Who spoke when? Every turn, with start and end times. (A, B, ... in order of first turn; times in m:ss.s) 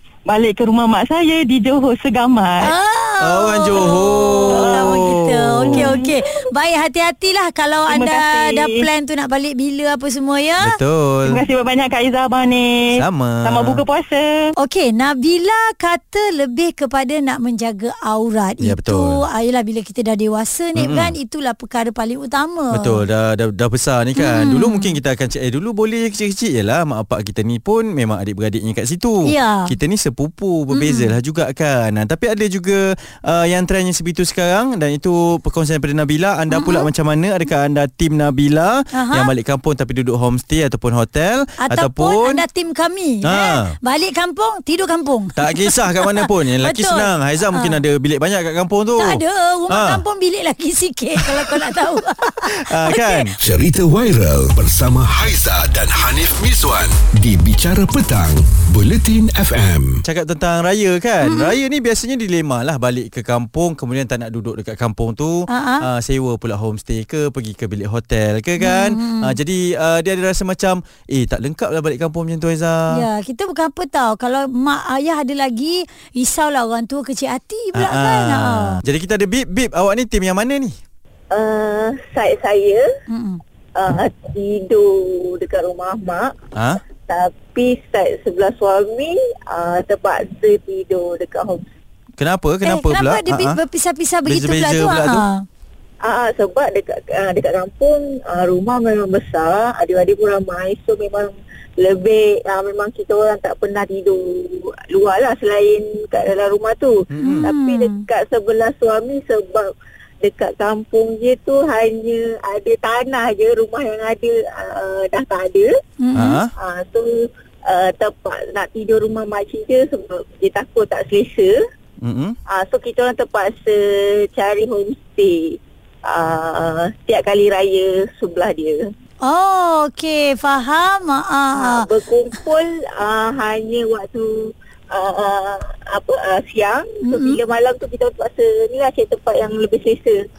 0:00.2-0:02.8 A
0:02.6-0:10.8 B
0:03.2-0:06.0 C
0:03.7-0:06.1 A
0:07.9-0:08.9 A
0:10.6-0:11.4 C
0:11.3-0:14.5 A
0:13.0-0:13.8 C
0:14.6-0:23.0 B
0:18.6-0:19.2 C
0:20.8-0:21.1 C
0:22.7-0:42.4 C
0:24.2-0:24.9 B
0:29.2-0:29.7 B
0:30.7-0:31.1 B
0:36.5-0:36.9 B
0:38.9-0:39.3 B
0:41.6-0:47.8 B
0:43.2-0:43.8 C
0:45.4-0:50.0 C
0:49.0-0:53.3 B
0:51.2-0:51.8 C
0:52.4-0:53.4 C
0:53.4-1:00.0 D
1:00.0-1:13.1 C
1:01.2-1:01.6 B
1:05.5-1:05.9 B
1:08.6-1:09.4 B
1:12.9-1:18.8 B
1:17.8-1:20.8 C
1:21.3-1:22.9 E
1:23.1-1:23.4 B
1:23.8-1:26.3 E
1:26.5-1:26.8 C
1:27.1-1:31.6 E
1:32.2-1:33.6 C
1:32.6-1:35.4 B
1:34.2-1:35.2 C
1:36.0-1:49.7 E
1:47.1-1:47.5 C
1:47.2-1:48.0 B
1:50.2-1:55.8 E
1:56.0-1:56.4 B
1:56.1-1:56.5 C
1:56.6-2:01.6 E
2:02.0-2:02.4 C
2:02.5-2:08.9 E
2:09.2-2:11.8 B
2:11.5-2:20.3 E
2:17.0-2:17.4 B